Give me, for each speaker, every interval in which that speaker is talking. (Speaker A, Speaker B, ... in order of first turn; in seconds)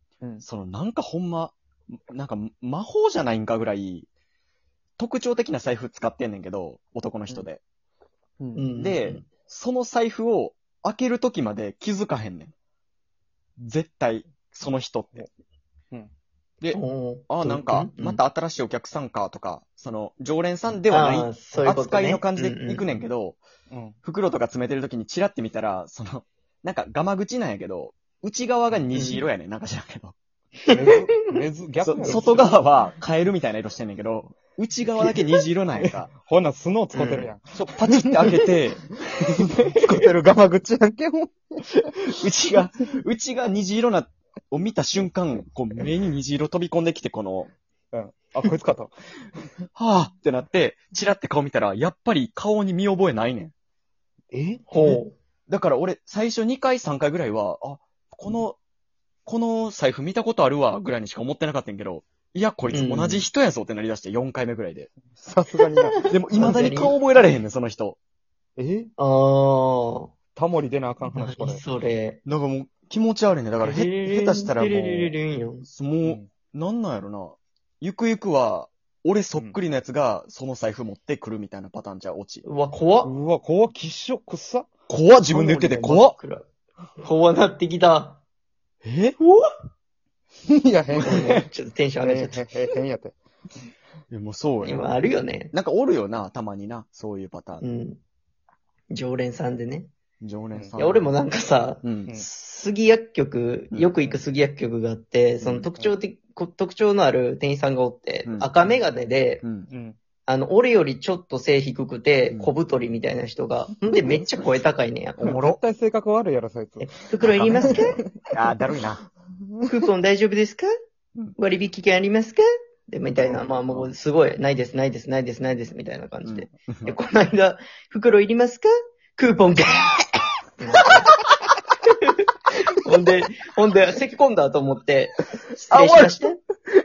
Speaker A: 0.4-4.1, 5.0-7.6, 8.8-12.5, 13.6-15.2, 16.6-23.4, 24.0-30.2, 31.8-36.1, 37.0-40.4, 42.1-47.5, 49.8-53.5, 55.5-58.6, 59.3-64.9, 66.0-68.0, 72.2-75.1, 75.7-82.5, 84.9-86.2, 88.8-89.2, 94.1-95.0, 95.5-97.6, 100.2-101.1, 101.8-102.1, 103.7-104.2, 105.4-105.7, 109.4-109.7, 113.9-114.7, 117.3-119.0, 123.2-123.9, 126.2-127.0, 135.7-136.2
Speaker B: 8.4-8.7, 23.7-24.0, 30.7-32.6, 35.8-38.3, 39.7-41.8, 47.9-48.9, 54.3-55.0, 65.2-66.0, 68.6-68.9, 70.4-71.6, 83.0-84.7, 90.5-91.5, 92.0-93.2, 109.7-110.0, 115.2-118.1
Speaker C: 8.6-9.3, 16.7-18.2, 20.9-22.9, 30.7-31.0, 36.9-37.3, 54.7-55.1, 62.7-63.3, 65.8-67.0, 69.0-70.1, 71.1-72.2, 73.6-75.7, 82.4-83.1, 85.3-86.5, 87.0-88.2, 89.2-89.5, 90.9-92.6, 94.6-95.5, 97.6-98.0, 98.9-99.9, 100.8-109.4, 110.3-115.6, 116.8-118.0, 119.7-120.7, 121.4-131.1, 132.1-136.4